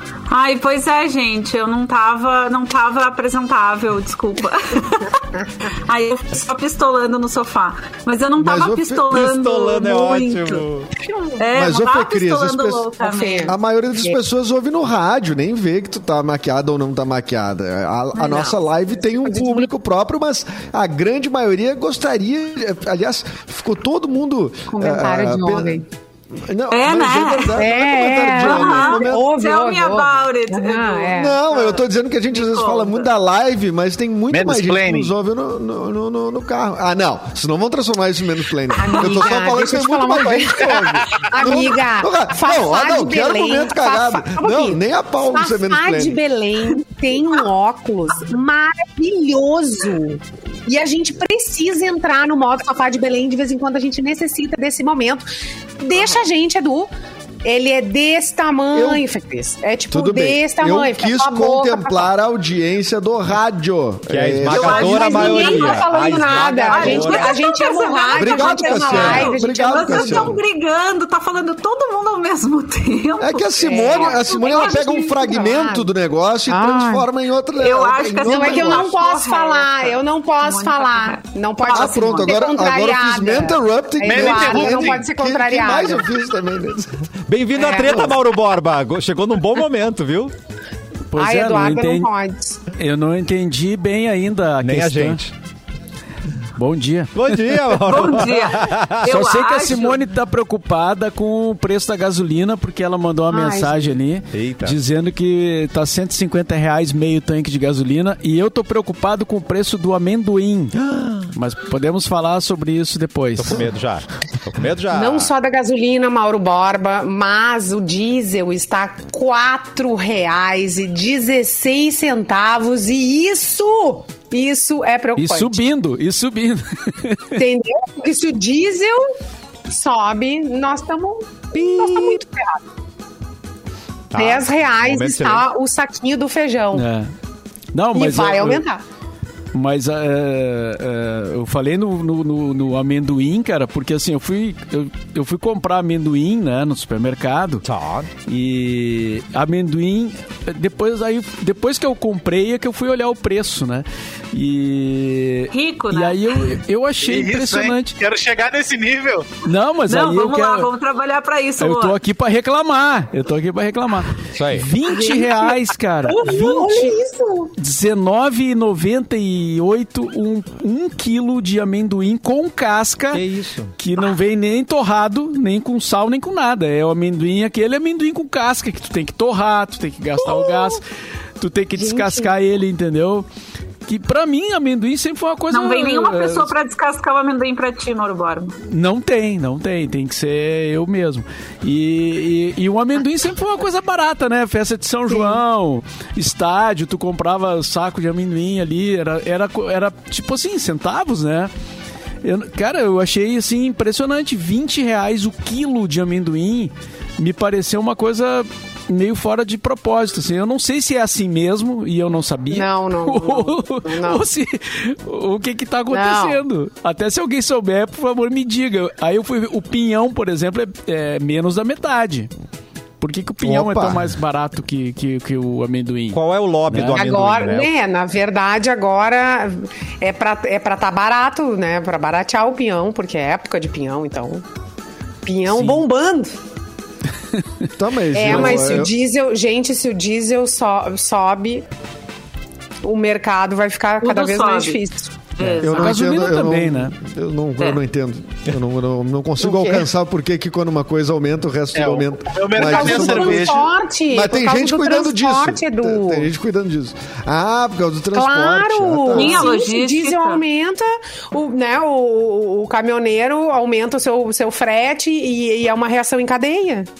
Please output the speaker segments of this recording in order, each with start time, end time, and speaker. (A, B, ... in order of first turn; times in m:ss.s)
0:00.3-0:10.6 A
0:08.4-0:09.0 B
0:09.1-0:10.9 C
0:11.4-0:13.6 A
0:11.5-0:12.9 B
0:13.0-0:14.2 D
0:13.4-0:29.3 B
0:18.2-0:19.7 D
0:24.7-0:25.8 D
0:26.7-0:27.7 A
0:27.6-0:31.5 D
0:28.3-0:31.2 A
0:31.1-0:46.2 B
0:32.3-0:33.1 A
0:34.3-0:35.1 E
0:38.8-0:55.2 D
0:55.8-0:56.9 D
0:57.4-1:02.1 D
0:58.7-0:59.0 B
0:59.9-1:05.0 B
1:04.1-1:07.4 C
1:04.5-1:06.0 A
1:04.5-1:10.4 D
1:06.7-1:14.2 A
1:08.2-1:10.4 B
1:13.2-1:18.9 B
1:13.6-1:15.9 D
1:16.5-1:17.1 D
1:17.6-1:22.3 A
1:18.2-1:26.1 D
1:21.7-1:27.1 B
1:24.0-1:25.0 E
1:27.3-1:30.3 C
1:27.6-1:28.2 D
1:31.1-1:32.1 F
1:31.2-1:32.6 D
1:32.7-1:35.2 F
1:34.6-1:35.3 C
1:36.6-1:37.6 F
1:37.1-1:39.0 C
1:37.9-1:40.0 A
1:39.0-1:50.8 F
1:43.3-1:44.0 D
1:44.3-1:44.8 C
1:50.8-1:51.3 C
1:51.3-1:53.6 F
1:53.4-1:55.3 C
1:54.9-2:05.6 D
2:05.2-2:07.4 F
2:07.4-2:09.1 D
2:09.7-2:12.6 D
2:11.6-2:12.2 C
2:14.1-2:15.4 C
2:14.1-2:16.9 D
2:16.7-2:17.1 F
2:17.7-2:18.6 F
2:17.9-2:18.8 D
2:19.5-2:27.6 F
2:27.6-2:28.1 C
2:28.2-2:38.0 F
2:35.5-2:36.6 A
2:37.0-2:39.3 E
2:39.4-2:40.7 F
2:39.9-2:42.0 A
2:41.6-2:46.9 F
2:44.3-2:44.7 C
2:44.9-2:45.5 A
2:46.1-2:47.5 D
2:46.2-2:46.6 A
2:47.6-2:53.2 F
2:53.1-2:53.7 C
2:53.8-3:00.8 F
3:00.2-3:00.7 D
3:01.4-3:03.2 F
3:01.8-3:02.3 D
3:03.8-3:06.5 F
3:05.5-3:08.6 A
3:08.7-3:21.5 F
3:15.1-3:15.4 D
3:22.2-3:42.3 F
3:32.5-3:34.2 D
3:35.9-3:36.4 D
3:43.0-3:47.0 F
3:43.4-3:44.0 B
3:46.1-3:47.7 C
3:46.9-3:54.4 D
3:55.2-3:56.4 D
3:57.8-3:59.0 B
3:58.1-4:01.6 D
4:02.8-4:05.1 D
4:04.0-4:04.8 A
4:05.4-4:06.0 A
4:05.4-4:19.5 B
4:05.6-4:07.0 F
4:09.4-4:09.9 D
4:11.7-4:13.7 E
4:12.6-4:16.3 D
4:18.1-4:26.9 D
4:19.1-4:20.4 A